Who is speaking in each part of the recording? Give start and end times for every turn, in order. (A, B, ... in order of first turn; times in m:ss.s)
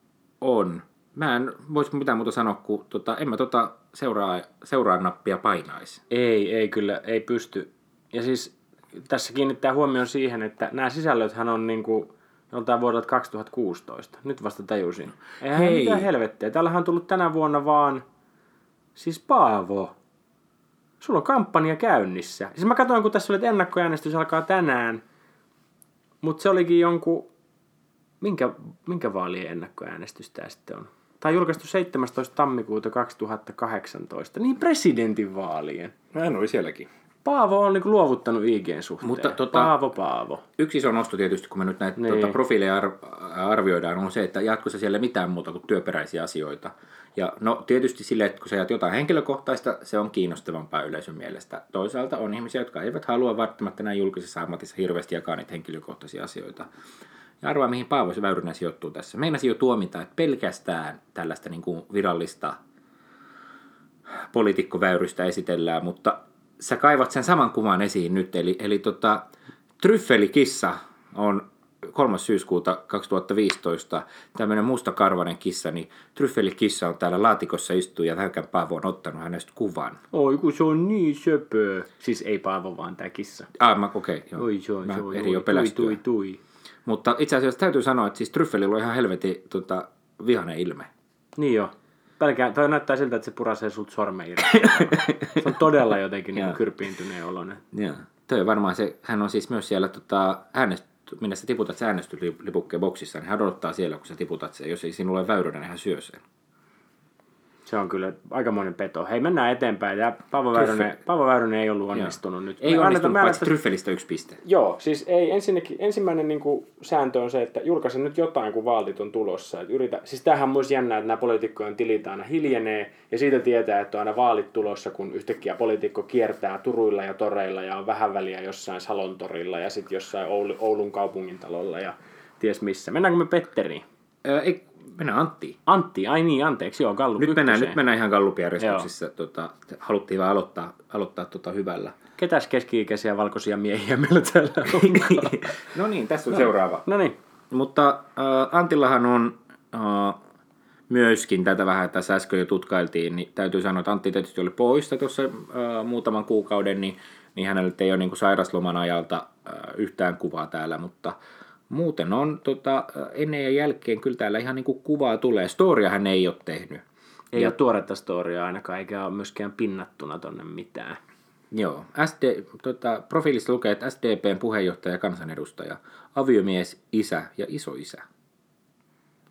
0:00.4-0:06.0 A
0:06.1-0:18.0 B
0:15.4-0:16.1 A
0:19.0-0:19.9 B
0:21.0-0:25.0 B
0:26.2-0:27.3 B
0:28.2-0:36.0 B
0:36.1-0:36.9 A
0:37.2-0:40.4 B
0:39.0-0:39.7 A
0:40.6-0:56.7 A
0:42.0-0:42.4 B
0:57.4-1:02.6 A
1:04.2-1:20.0 A
1:20.1-1:23.5 B
1:23.5-1:26.0 A
1:24.4-1:26.4 B
1:26.8-1:30.9 A
1:31.4-1:37.6 B
1:34.5-1:35.5 A
1:37.7-1:46.2 A
1:47.6-1:53.5 B
1:50.5-1:50.9 A
1:51.9-1:54.4 A
1:54.4-2:13.8 B
2:14.2-2:15.6 A
2:15.6-2:17.8 B
2:17.2-2:22.0 A
2:18.6-2:18.9 B
2:22.2-2:25.6 B
2:24.7-2:26.8 A
2:26.3-2:27.2 B
2:27.5-2:30.2 A
2:30.9-2:41.2 A
2:41.7-2:46.8 A
2:47.3-2:51.0 B
2:51.5-2:58.0 A